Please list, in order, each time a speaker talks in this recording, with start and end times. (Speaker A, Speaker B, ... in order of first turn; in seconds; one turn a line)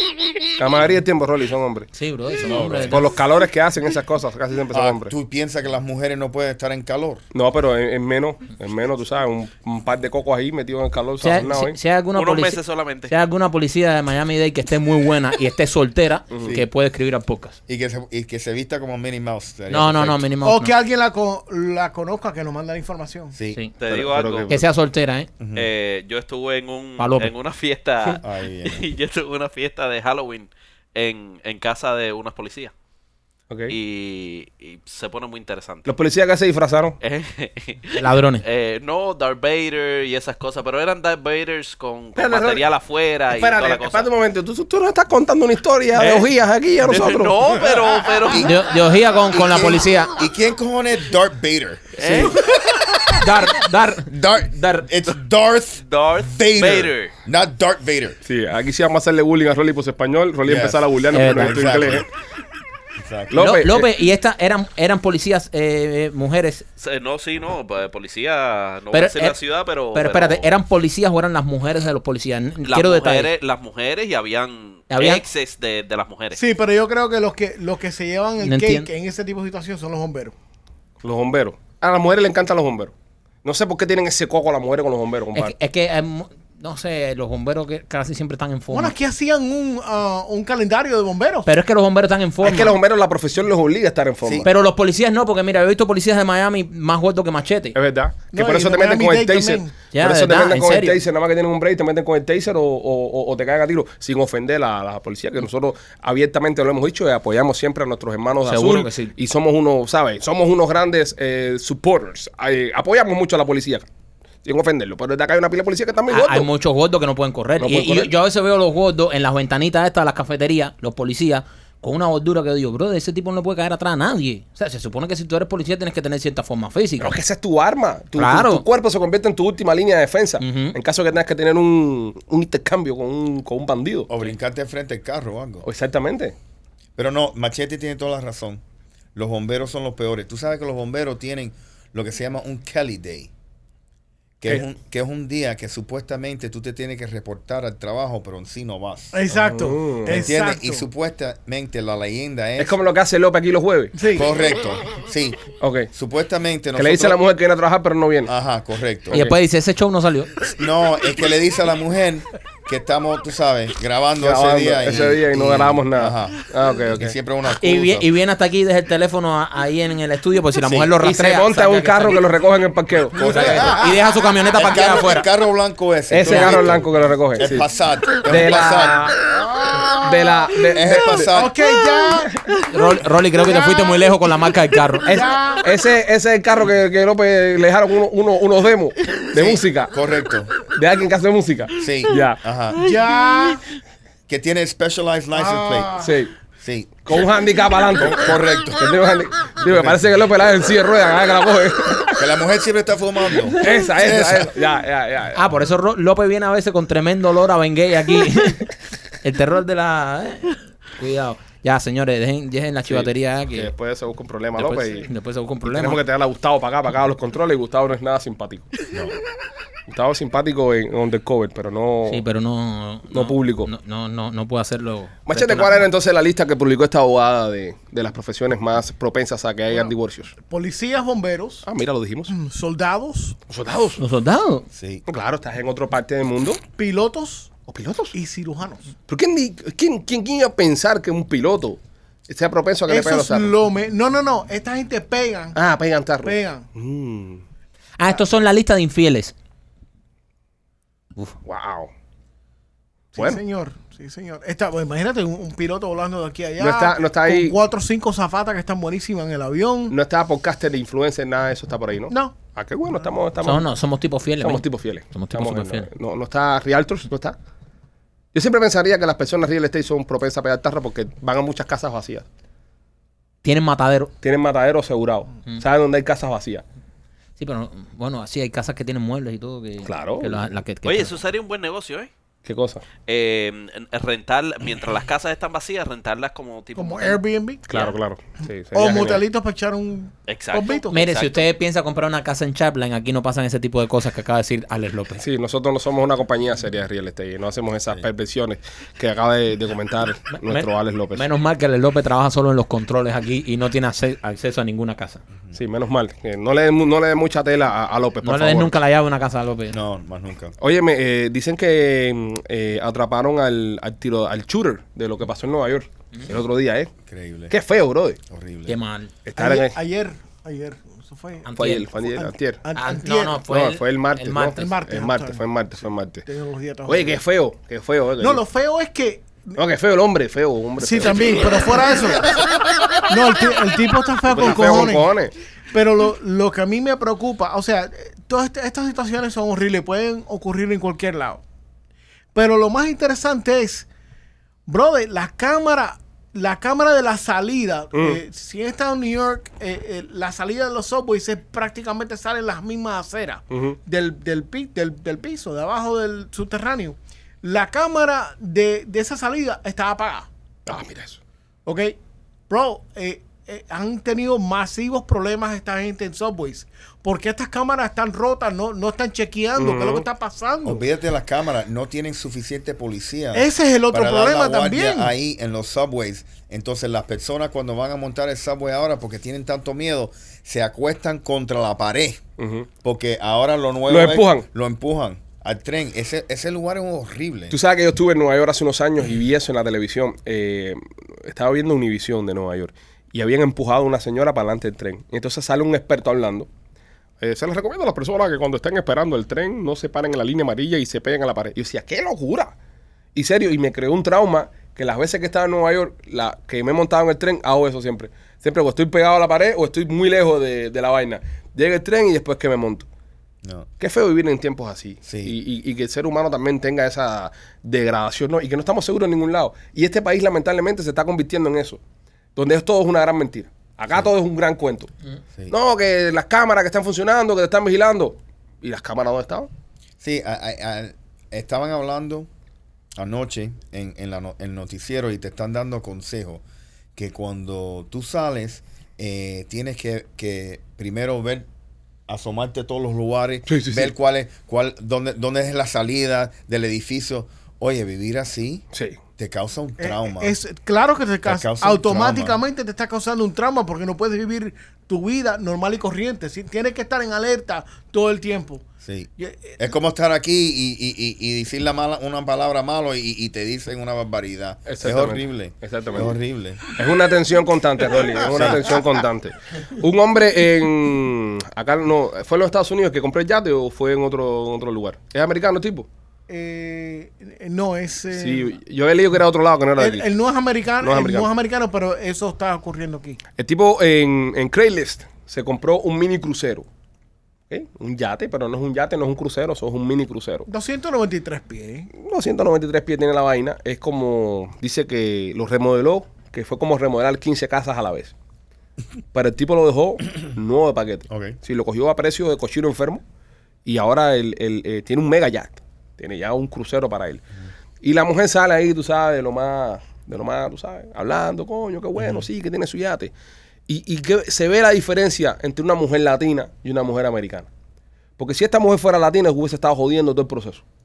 Speaker A: 0.5-1.9
Speaker B: 1.9-3.0
Speaker C: 2.4-3.0
Speaker A: 2.9-5.1
Speaker C: 4.7-7.2
Speaker A: 7.3-11.8
Speaker B: 11.2-17.6
Speaker D: 12.1-13.1
Speaker C: 17.7-20.3
Speaker B: 19.7-20.7
Speaker E: 20.4-23.3
Speaker C: 23.3-23.6
Speaker D: 23.8-24.6
Speaker A: 23.9-24.6
Speaker B: 24.5-25.3
Speaker C: 25.4-25.7
Speaker D: 25.5-32.7
Speaker B: 27.0-27.3
Speaker C: 28.2-28.9
Speaker A: 33.5-33.7
Speaker D: 33.7-35.9
Speaker A: 35.9-37.0
Speaker D: 37.0-44.1
Speaker B: 38.0-38.4
Speaker A: 42.1-42.6
Speaker A: 43.3-47.5
Speaker D: 46.0-46.3
Speaker D: 46.8-48.5
Speaker C: 48.2-48.5
Speaker B: 48.4-50.1
Speaker C: 49.2-53.2
Speaker D: 52.0-52.4
Speaker B: 53.1-54.9
Speaker C: 54.1-58.2
Speaker D: 55.8-57.1
Speaker A: 58.2-62.0
Speaker C: 60.4-62.0
Speaker B: 61.1-61.6
Speaker C: 63.0-63.3
Speaker A: 63.3-63.9
Speaker B: 63.3-66.7
Speaker D: 66.8-70.5
Speaker B: 68.9-69.4
Speaker B: 69.9-73.3
Speaker D: 72.6-76.4
Speaker B: 74.9-75.2
Speaker E: 76.3-80.3
Speaker B: 78.4-78.9
Speaker A: 81.0-82.9
Speaker A: 83.4-85.5
Speaker B: 85.3-88.9
Speaker E: 88.7-91.5
Speaker B: 91.5-92.7
Speaker A: 92.4-94.5
Speaker C: 94.2-94.5
Speaker B: 94.4-97.8
Speaker A: 97.7-113.9
Speaker E: 98.3-99.7
Speaker B: 99.9-101.0
Speaker B: 108.4-109.1
Speaker A: 114.4-116.5
Speaker B: 116.1-127.1
Speaker A: 117.6-118.1
Speaker A: 127.0-134.1
Speaker B: 128.2-128.6
Speaker B: 130.4-130.8
Speaker C: 134.1-135.7
Speaker A: 135.6-136.3
Speaker C: 137.0-138.6
Speaker C: 139.1-143.3
Speaker C: 144.4-152.8
Speaker E: 149.1-150.8
Speaker A: 149.4-150.3
Speaker A: 152.6-154.1
Speaker E: 153.9-154.3
Speaker C: 154.1-157.2
Speaker A: 155.6-155.9
Speaker A: 156.8-158.3
Speaker C: 158.2-159.2
Speaker B: 159.1-160.3
Speaker C: 160.5-168.1
Speaker A: 164.2-167.2
Speaker B: 167.6-172.2
Speaker C: 170.6-170.9
Speaker A: 171.0-173.6
Speaker C: 173.2-173.9
Speaker B: 173.2-175.3
Speaker C: 174.5-179.1
Speaker A: 176.1-177.6
Speaker B: 176.2-176.6
Speaker A: 178.2-179.2
Speaker E: 179.6-179.9
Speaker A: 179.8-181.3
Speaker C: 180.7-181.6
Speaker E: 181.3-182.3
Speaker B: 182.7-185.2
Speaker E: 183.4-184.1
Speaker E: 185.1-185.7
Speaker A: 185.1-189.9
Speaker C: 189.3-190.5
Speaker A: 190.7-192.4
Speaker C: 191.8-192.8
Speaker E: 192.8-193.6
Speaker C: 194.3-196.1
Speaker E: 195.3-196.1
Speaker A: 196.0-196.3
Speaker C: 196.6-197.0
Speaker A: 197.0-202.2
Speaker C: 198.0-198.9
Speaker C: 199.6-200.0
Speaker C: 202.2-204.5
Speaker A: 203.6-205.5
Speaker B: 205.3-208.7
Speaker B: 209.2-213.7
Speaker A: 212.9-215.1
Speaker B: 214.6-216.0
Speaker A: 215.7-218.7
Speaker A: 219.9-222.2
Speaker B: 222.1-225.8
Speaker A: 223.1-223.7
Speaker A: 225.3-230.3
Speaker E: 230.5-231.6
Speaker A: 231.6-232.3
Speaker E: 232.3-233.4
Speaker A: 233.5-234.0
Speaker B: 234.0-234.7
Speaker C: 234.7-235.0
Speaker A: 235.1-236.6
Speaker E: 236.8-237.5
Speaker A: 237.7-238.1
Speaker E: 238.1-238.9
Speaker A: 239.1-243.5
Speaker E: 242.9-245.6
Speaker A: 245.5-247.4
Speaker E: 246.2-246.7
Speaker B: 248.0-249.3
Speaker A: 251.4-251.9
Speaker E: 253.1-259.9
Speaker A: 253.2-253.4
Speaker A: 256.6-257.6
Speaker A: 259.9-263.6
Speaker E: 262.1-262.4
Speaker B: 263.4-265.9
Speaker A: 264.4-267.4
Speaker A: 268.3-272.2
Speaker B: 273.4-274.1
Speaker A: 274.2-276.6
Speaker B: 277.4-281.2
Speaker A: 279.8-280.4
Speaker D: 280.8-282.1
Speaker A: 282.4-282.9
Speaker D: 283.0-287.2
Speaker E: 286.8-287.6
Speaker A: 287.7-289.2
Speaker E: 288.7-291.0
Speaker D: 290.3-291.4
Speaker B: 290.9-295.2
Speaker A: 295.2-301.2
Speaker B: 300.3-305.2
Speaker A: 305.5-308.7
Speaker B: 308.2-309.8
Speaker C: 309.7-310.5
Speaker A: 310.6-316.9
Speaker C: 317.1-317.5
Speaker A: 317.5-318.2
Speaker C: 318.3-318.8
Speaker B: 318.7-319.1
Speaker A: 319.2-319.8
Speaker E: 319.4-321.5
Speaker B: 321.4-321.9
Speaker A: 321.6-322.6
Speaker E: 322.0-323.4
Speaker B: 322.7-324.7
Speaker A: 323.5-326.3
Speaker E: 324.6-325.4
Speaker E: 326.2-327.2
Speaker A: 326.9-328.4
Speaker E: 328.2-329.6
Speaker A: 329.6-331.8
Speaker E: 330.8-332.5
Speaker E: 333.0-335.1
Speaker A: 334.3-335.3
Speaker E: 335.7-341.4
Speaker E: 342.3-343.9
Speaker E: 344.7-360.3
Speaker A: 347.9-348.2
Speaker A: 353.5-353.8
Speaker A: 360.6-361.2
Speaker E: 361.6-362.0
Speaker E: 362.5-370.8
Speaker A: 369.6-370.1
Speaker C: 370.6-382.2
Speaker E: 373.3-375.1
Speaker A: 382.4-382.7
Speaker C: 382.8-387.6
Speaker A: 383.9-384.4
Speaker A: 387.5-396.5
Speaker A: 397.2-402.5
Speaker A: 403.1-412.9
Speaker C: 413.4-413.7
Speaker A: 413.8-421.8
Speaker C: 415.0-415.4
Speaker A: 422.4-424.9
Speaker A: 425.5-429.5
Speaker C: 430.0-432.3
Speaker C: 432.9-436.4
Speaker C: 436.9-441.5
Speaker C: 442.1-448.6
Speaker A: 443.5-443.9
Speaker A: 448.7-449.0
Speaker C: 449.2-450.4
Speaker E: 449.8-458.6
Speaker C: 451.2-452.4
Speaker C: 458.8-466.6
Speaker E: 459.2-459.6
Speaker A: 464.6-466.1
Speaker A: 466.7-475.9
Speaker C: 468.3-468.8
Speaker E: 476.3-478.5
Speaker A: 478.1-480.1
Speaker E: 479.8-483.2
Speaker A: 480.8-481.3
Speaker A: 483.4-486.6
Speaker A: 487.5-490.5
Speaker E: 490.5-491.9
Speaker A: 491.9-498.1
Speaker A: 499.1-503.0
Speaker C: 501.1-501.4
Speaker A: 503.6-507.2
Speaker A: 507.8-513.1
Speaker A: 513.7-517.5
Speaker A: 518.2-520.6